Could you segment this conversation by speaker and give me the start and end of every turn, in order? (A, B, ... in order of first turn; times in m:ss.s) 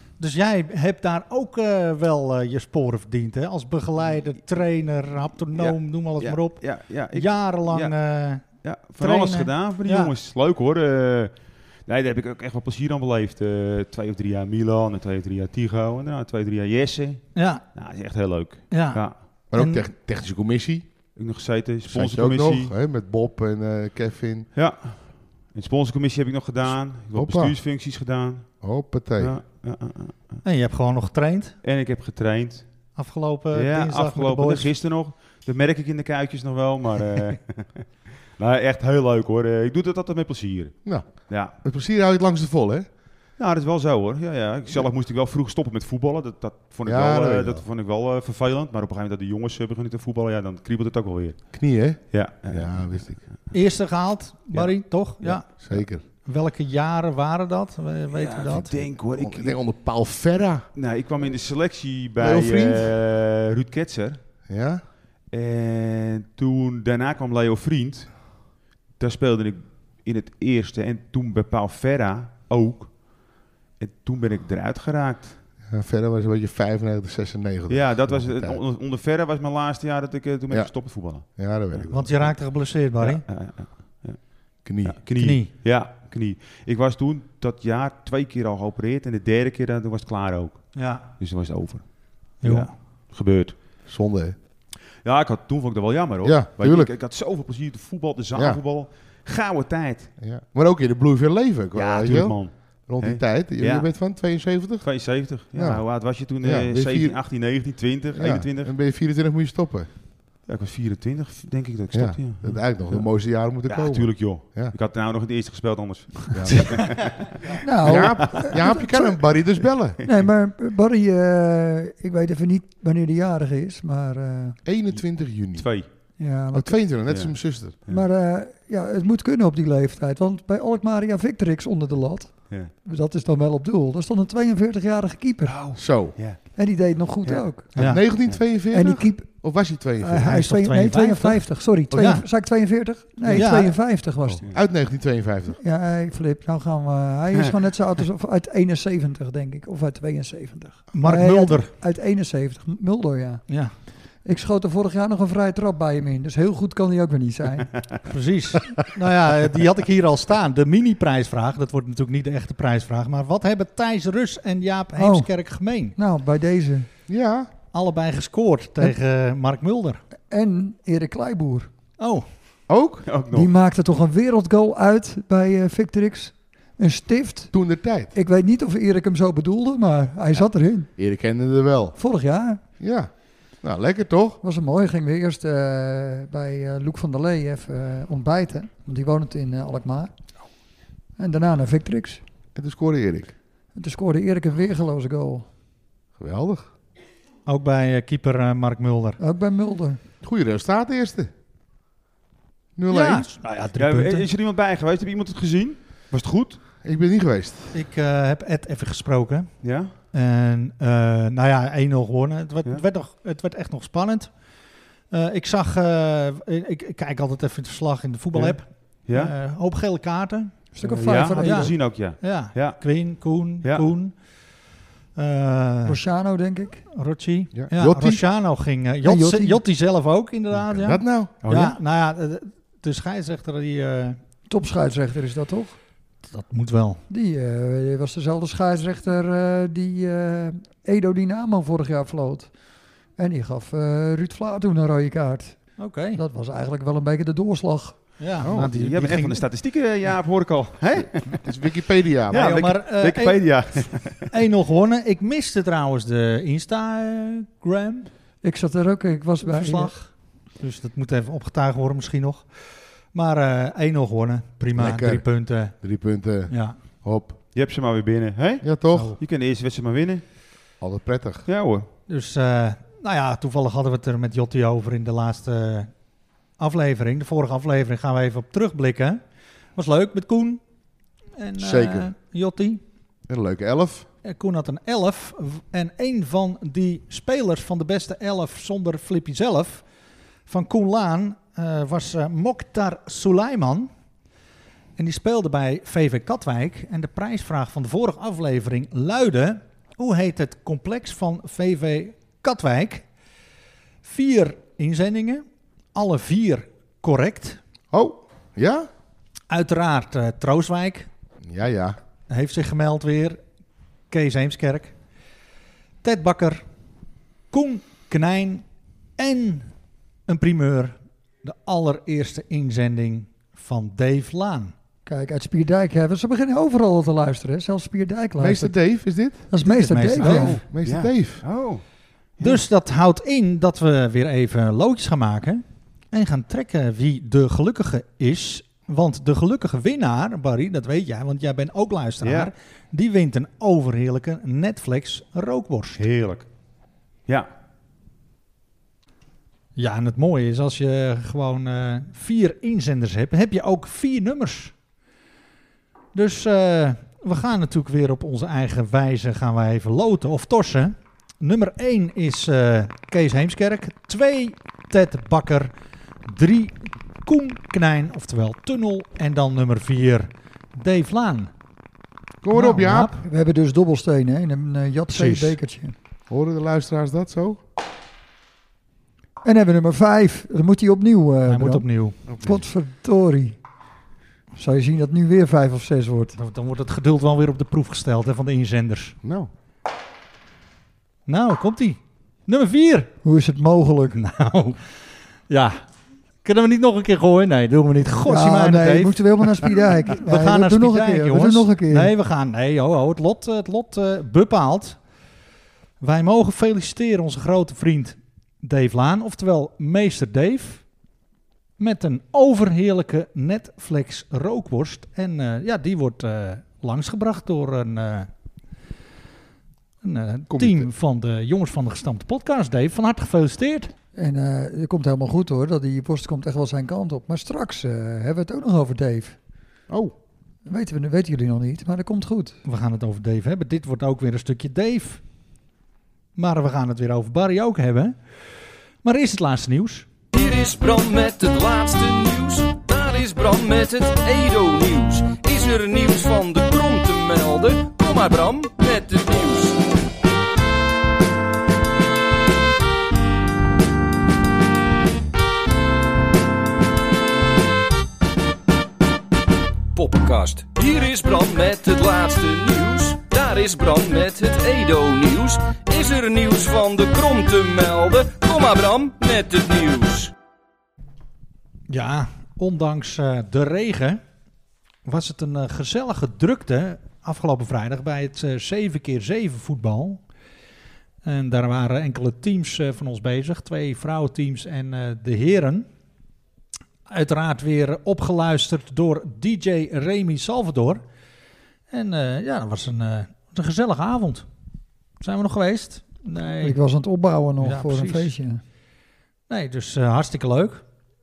0:00.2-0:08.4 A
0:05.5-0:19.2 B
0:09.0-0:10.1 A
0:17.3-0:17.6 A
0:18.7-0:19.9 A
0:19.5-0:20.8 C
0:21.2-0:22.7 B
0:21.8-0:24.5 C
0:24.5-0:30.4 B
0:27.1-0:27.6 C
0:28.6-0:29.4 C
0:30.4-0:31.5 A
0:31.6-0:32.8 B
0:32.9-0:34.7 A
0:33.5-0:41.5 B
0:40.8-0:42.9 C
0:43.4-0:53.6 B
0:46.8-0:47.6 C
0:51.5-0:53.2 C
0:53.5-0:58.8 A
0:55.2-0:56.0 C
0:58.1-0:59.6 B
0:58.7-1:00.7 C
1:00.7-1:04.2 B
1:02.2-1:02.9 C
1:04.5-1:04.8 C
1:05.3-1:15.4 B
1:15.6-1:18.6 C
1:17.7-1:22.4 B
1:20.5-1:22.2 C
1:21.9-1:23.2 A
1:23.0-1:33.6 B
1:24.6-1:25.0 C
1:25.2-1:25.5 A
1:30.7-1:31.1 A
1:32.4-1:32.7 A
1:33.9-1:34.4 C
1:35.0-1:40.1 B
1:36.2-1:36.9 C
1:38.3-1:38.6 C
1:40.2-1:47.4 C
1:41.7-1:44.2 B
1:44.8-1:48.7 B
1:48.1-1:49.9 C
1:50.5-1:58.5 B
1:51.9-1:54.7 C
1:56.3-1:57.3 C
1:57.6-1:59.2 D
1:57.8-2:00.0 C
2:00.0-2:04.6 D
2:04.6-2:05.7 C
2:05.5-2:05.9 B
2:06.2-2:06.8 D
2:06.5-2:07.8 C
2:07.1-2:08.0 B
2:07.9-2:15.7 D
2:15.4-2:16.4 B
2:15.8-2:16.2 C
2:16.5-2:18.2 D
2:17.2-2:18.4 B
2:17.8-2:18.0 A
2:17.8-2:20.3 C
2:18.7-2:24.5 D
2:20.2-2:22.2 A
2:23.3-2:23.8 A
2:24.2-2:24.5 B
2:24.5-2:25.6 C
2:25.6-2:37.9 D
2:30.9-2:31.7 A
2:33.5-2:33.7 A
2:38.0-2:46.0 A
2:45.0-2:45.3 D
2:46.0-2:46.9 D
2:47.1-2:47.5 C
2:47.7-2:50.0 A
2:50.3-2:51.7 D
2:52.0-2:52.3 A
2:52.7-2:53.1 C
2:53.0-2:53.5 B
2:53.3-3:00.9 D
2:57.5-2:58.1 C
3:01.0-3:02.0 C
3:02.0-3:02.6 D
3:02.8-3:04.4 C
3:04.4-3:10.1 D
3:11.2-3:12.2 D
3:12.5-3:13.3 C
3:13.7-3:15.4 D
3:16.2-3:16.7 C
3:17.4-3:19.2 A
3:19.2-3:20.0 D
3:20.2-3:21.3 C
3:22.8-3:23.3 C
3:22.9-3:24.3 A
3:23.8-3:26.6 B
3:26.8-3:27.8 C
3:27.7-3:29.5 A
3:29.6-3:29.9 B
3:30.1-3:34.3 A
3:35.1-3:40.7 A
3:38.3-3:39.3 B
3:40.7-3:41.8 D
3:40.8-3:43.0 B
3:41.3-3:44.2 A
3:43.6-3:43.9 B
3:45.2-3:46.0 A
3:45.8-3:46.8 D
3:46.9-3:54.2 A
3:47.5-3:48.2 C
3:49.0-3:49.6 D
3:50.5-3:51.3 C
3:51.4-3:51.8 B
3:54.5-3:55.8 D
3:56.2-3:57.0 A
3:57.1-4:02.5 D
4:03.2-4:08.0 D
4:05.8-4:06.2 A
4:08.2-4:09.4 A
4:08.4-4:08.7 C
4:08.6-4:11.6 B
4:11.2-4:12.5 C
4:12.3-4:14.3 B
4:12.3-4:13.4 A
4:14.3-4:18.1 A
4:18.4-4:20.0 D
4:19.4-4:25.7 A
4:24.7-4:27.3 C
4:26.5-4:26.8 A
4:27.5-4:30.2 B
4:28.6-4:29.1 C
4:28.9-4:29.2 A
4:30.8-4:31.4 C
4:31.4-4:31.9 B
4:32.1-4:35.9 A
4:36.6-4:39.2 A
4:39.7-4:40.6 A
4:41.4-4:42.8 A
4:41.6-4:42.1 C
4:43.3-4:44.1 C
4:44.2-4:49.8 A
4:50.5-4:53.9 A
4:55.0-5:03.1 A
5:04.0-5:07.6 A
5:07.9-5:08.9 C
5:09.5-5:11.1 A
5:11.4-5:12.0 C
5:12.3-5:13.4 A
5:14.1-5:15.0 A
5:16.0-5:16.6 A
5:17.5-5:18.6 A
5:19.2-5:19.7 A
5:20.3-5:24.7 A
5:25.0-5:30.6 D
5:28.4-5:29.5 C
5:29.6-5:30.6 A
5:30.2-5:31.4 C
5:30.2-5:31.8 B
5:32.4-5:46.0 A
5:42.2-5:42.5 B
5:46.0-5:46.5 B
5:49.8-5:54.7 A
5:56.1-6:05.7 A
6:06.2-6:11.5 A
6:12.4-6:13.1 C
6:12.5-6:13.2 A
6:13.2-6:16.0 D
6:15.1-6:15.6 A
6:16.3-6:17.6 C
6:19.4-6:23.6 D
6:21.4-6:22.2 A
6:22.3-6:22.6 C
6:24.6-6:26.4 D
6:26.4-6:29.2 A
6:29.2-6:29.5 C
6:31.2-6:33.1 A
6:33.2-6:34.2 D
6:34.1-6:35.0 A
6:35.5-6:35.8 A
6:36.4-6:45.0 A
6:38.2-6:42.1 D
6:46.0-6:50.8 A
6:51.8-6:58.3 A
7:00.0-7:03.9 A
7:00.5-7:00.9 C
7:04.1-7:09.4 D
7:09.9-7:10.1 C
7:10.6-7:12.6 D
7:12.6-7:15.2 A
7:16.4-7:20.1 A
7:20.3-7:29.8 E
7:39.9-7:50.3 E
7:51.9-7:54.2 A
7:55.0-8:00.2 A
8:01.2-8:05.8 A
8:07.1-8:11.0 A
8:11.9-8:14.4 A
8:15.2-8:16.8 A
8:16.6-8:18.6 D
8:17.6-8:18.3 A
8:19.5-8:20.8 A